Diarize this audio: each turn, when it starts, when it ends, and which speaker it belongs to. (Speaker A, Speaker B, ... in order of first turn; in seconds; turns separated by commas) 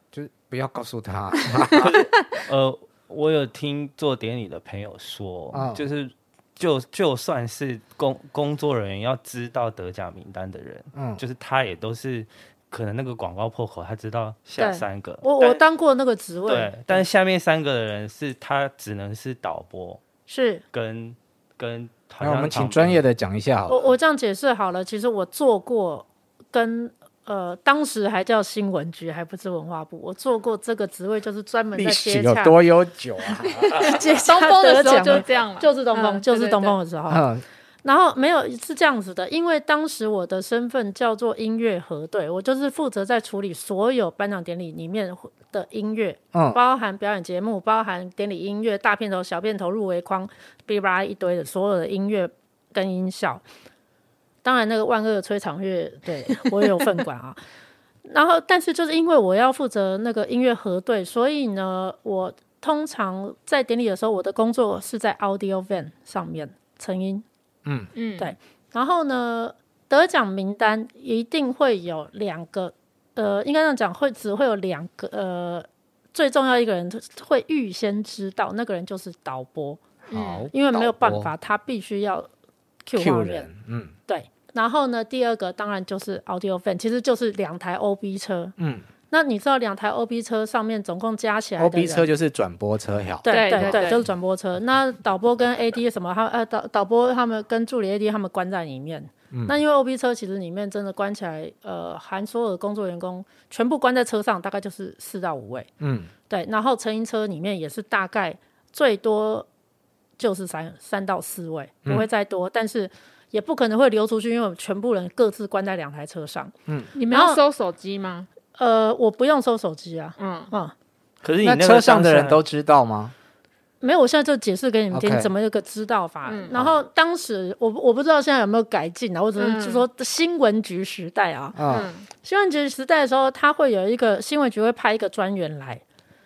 Speaker A: 0.1-1.8, Speaker B: 1.6-2.4, Speaker C: 1.8-15.6, Speaker A: 5.5-5.8, Speaker A: 10.9-11.2, Speaker D: 14.6-17.1, Speaker C: 16.4-20.0, Speaker D: 20.3-20.6, Speaker C: 20.7-23.0, Speaker A: 22.2-23.9, Speaker D: 23.7-32.6, Speaker A: 31.8-34.0, Speaker B: 33.5-36.8, Speaker D: 33.8-37.2, Speaker A: 37.1-37.4, Speaker D: 37.8-53.4, Speaker A: 46.3-46.6, Speaker D: 54.4-57.4, Speaker D: 58.1-67.2, Speaker B: 68.0-68.3, Speaker D: 68.2-79.8, Speaker B: 80.1-80.5, Speaker A: 80.1-81.3, Speaker D: 80.5-82.3, Speaker D: 82.8-83.5, Speaker A: 83.0-84.0, Speaker D: 84.1-88.5, Speaker A: 88.6-88.9, Speaker D: 89.1-92.1, Speaker A: 91.6-94.0, Speaker D: 93.2-105.7, Speaker B: 93.3-94.0, Speaker A: 99.3-99.6, Speaker A: 105.8-106.1, Speaker D: 106.3-109.5, Speaker D: 110.2-116.5, Speaker B: 116.9-118.3, Speaker D: 117.1-117.4, Speaker D: 118.6-120.7, Speaker B: 120.2-120.5, Speaker C: 121.2-122.4, Speaker A: 121.4-123.1, Speaker D: 123.8-131.6, Speaker A: 124.9-125.3, Speaker B: 126.3-126.5, Speaker A: 126.5-126.8, Speaker B: 129.4-129.8, Speaker A: 131.6-131.9, Speaker B: 131.7-132.1, Speaker D: 132.2-135.8